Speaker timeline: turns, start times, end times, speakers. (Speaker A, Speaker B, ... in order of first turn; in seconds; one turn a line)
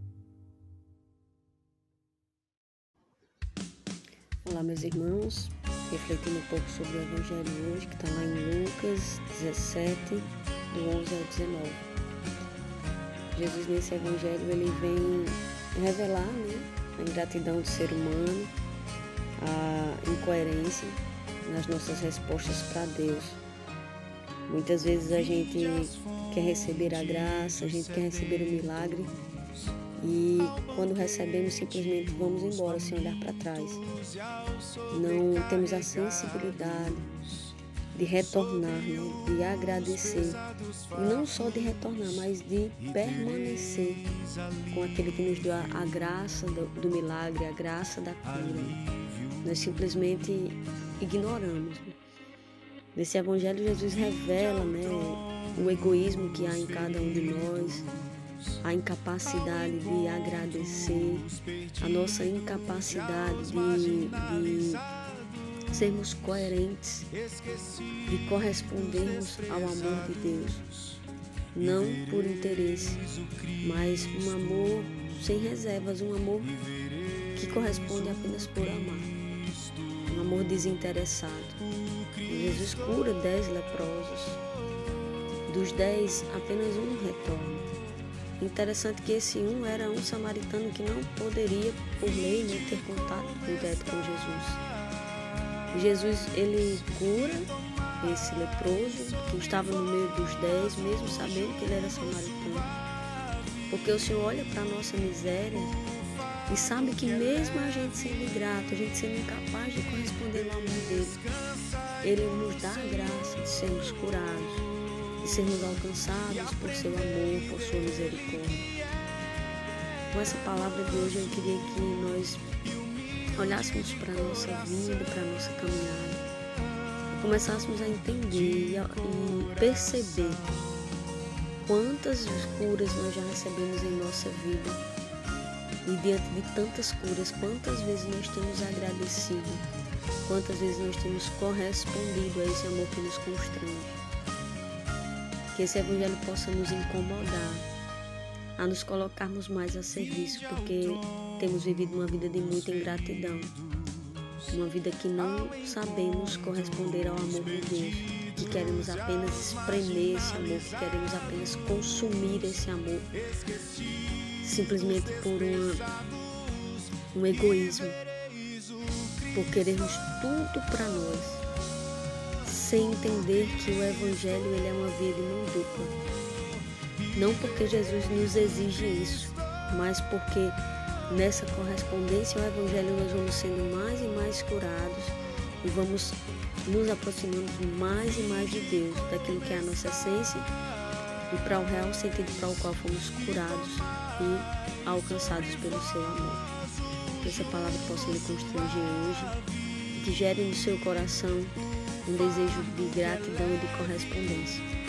Speaker A: 4.4-11.8
Speaker A: 13.3-18.5
Speaker A: 19.4-23.4
Speaker A: 24.5-29.1
Speaker A: 30.0-33.8
Speaker A: 34.9-37.2
Speaker A: 37.9-40.4
Speaker A: 40.9-44.0
Speaker A: 44.7-48.8
Speaker A: 49.4-52.0
Speaker A: 52.9-57.9
Speaker A: 58.6-61.3
Speaker A: 61.8-64.8
Speaker A: 65.7-67.1
Speaker A: 68.1-70.7
Speaker A: 71.5-76.6
Speaker A: 77.3-79.1
Speaker A: 80.1-81.6
Speaker A: 82.2-84.4
Speaker A: 85.5-87.7
Speaker A: 88.4-94.6
Speaker A: 95.7-102.7
Speaker A: 103.7-105.8
Speaker A: 106.5-111.2
Speaker A: 112.0-114.7
Speaker A: 115.2-118.7
Speaker A: 120.1-122.4
Speaker A: 123.4-126.2
Speaker A: 127.1-130.6
Speaker A: 131.6-134.8
Speaker A: 135.8-139.6
Speaker A: 140.2-144.0
Speaker A: 145.5-147.7
Speaker A: 148.6-153.5
Speaker A: 154.5-163.1
Speaker A: 164.4-165.9
Speaker A: 167.1-168.0
Speaker A: 169.3-171.4
Speaker A: 172.4-175.9
Speaker A: 177.1-180.6
Speaker A: 181.1-190.5
Speaker A: 191.3-196.5
Speaker A: 197.2-199.3
Speaker A: 199.9-201.5
Speaker A: 202.1-204.7